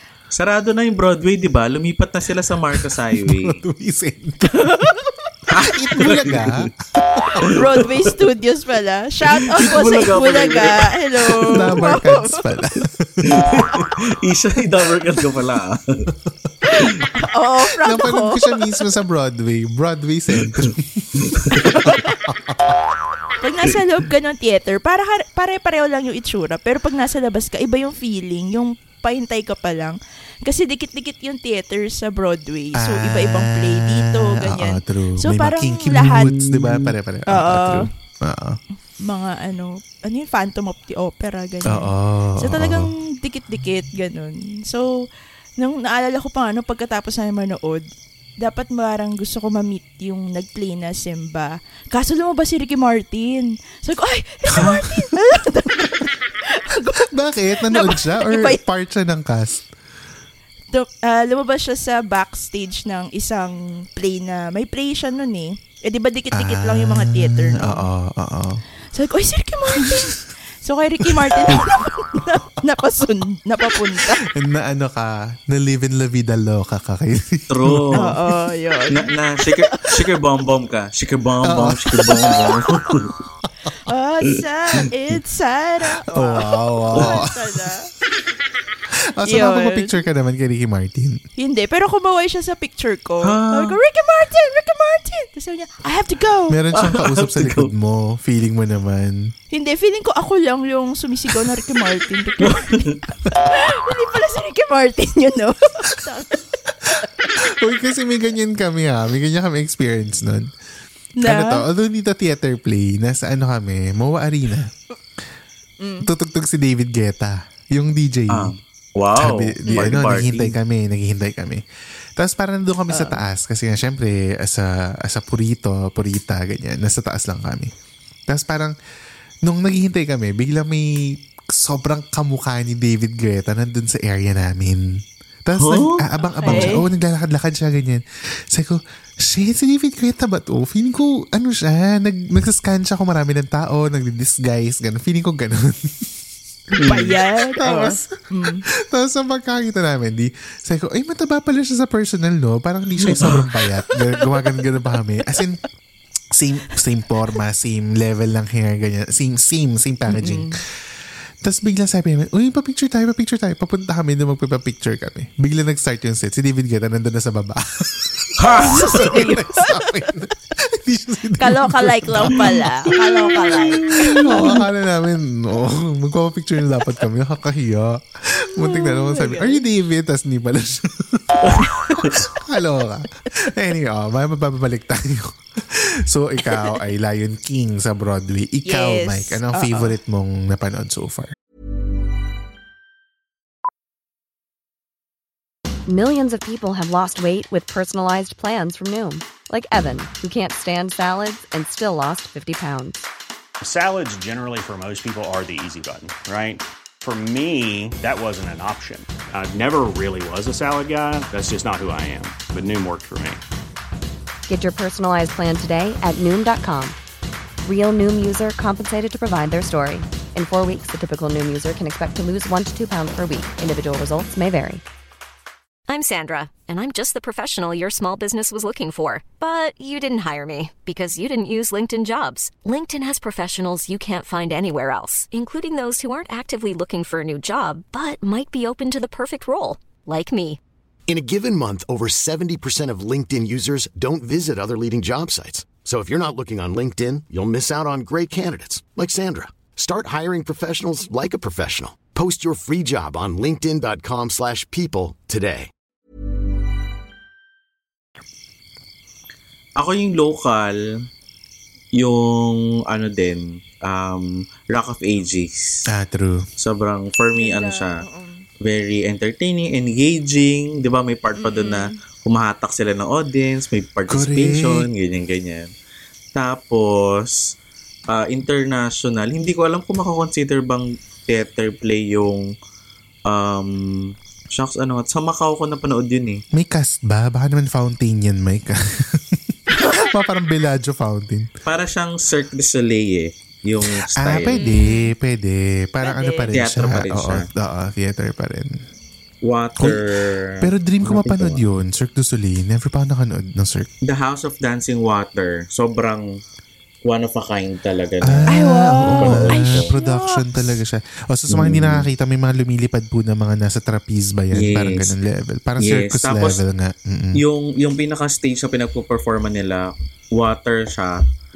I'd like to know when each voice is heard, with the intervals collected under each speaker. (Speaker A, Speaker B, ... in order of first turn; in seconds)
Speaker A: 0.3-3.6, 5.5-6.7, 9.5-11.8, 13.3-16.1, 20.4-21.6, 36.0-36.9, 77.5-78.1, 78.9-83.1, 93.2-93.8, 96.8-97.7, 102.5-102.9, 118.3-120.5, 135.6-136.8, 146.8-147.1, 181.4-182.2, 259.8-260.8, 261.9-265.8, 266.6-268.0, 268.6-275.7, 276.4-277.5, 278.1-282.5, 283.3-286.4, 291.6-294.6, 296.5-297.4, 299.4-301.6, 304.0-306.4, 307.0-308.5, 309.2-309.9, 311.5-312.1, 314.5-315.1, 315.8-316.6, 317.4-321.1
Speaker B: 2.8-5.0, 5.5-7.6, 11.5-13.8, 17.8-22.8, 32.8-38.6, 41.6-42.9, 54.5-54.9, 57.0-59.6, 66.3-68.6, 69.8-70.1, 71.0-71.6, 73.9-78.2, 81.4-82.7, 86.1-87.7, 89.2-91.2, 96.5-99.3, 107.0-110.5, 111.2-114.7, 116.0-118.5, 119.2-121.6, 122.2-127.7, 128.3-128.7, 129.4-146.1, 146.7-148.2, 148.7-155.6, 156.3-160.6, 161.4-181.6, 182.2-191.3, 265.9-266.4, 274.1-274.9, 286.5-291.5, 293.9-298.8, 300.6-303.9, 308.2-317.4
Speaker C: 7.5-12.4, 16.6-18.6, 21.6-22.1, 23.4-36.3, 37.3-37.9, 39.0-45.0, 45.6-47.9, 48.4-57.1, 57.6-58.6, 60.7-67.9, 68.9-74.2, 77.9-79.9, 83.8-87.9, 89.2-89.9, 91.4-96.6, 99.5-106.4, 111.2-111.6, 115.8-116.1, 119.7-120.0, 122.9-123.2, 136.4-136.8, 146.8-148.6, 153.1-154.6, 160.1-160.6, 168.5-170.0, 171.4-174.6, 178.4-179.6, 186.5-186.8, 188.7-189.9, 267.4-268.4, 271.4-272.0, 294.5-295.1, 296.0-296.5, 308.5-310.7
Speaker D: 195.9-203.1, 214.5-217.0, 217.6-224.8
Speaker E: 203.6-213.4
Speaker F: 225.9-240.6
Speaker G: 241.1-255.7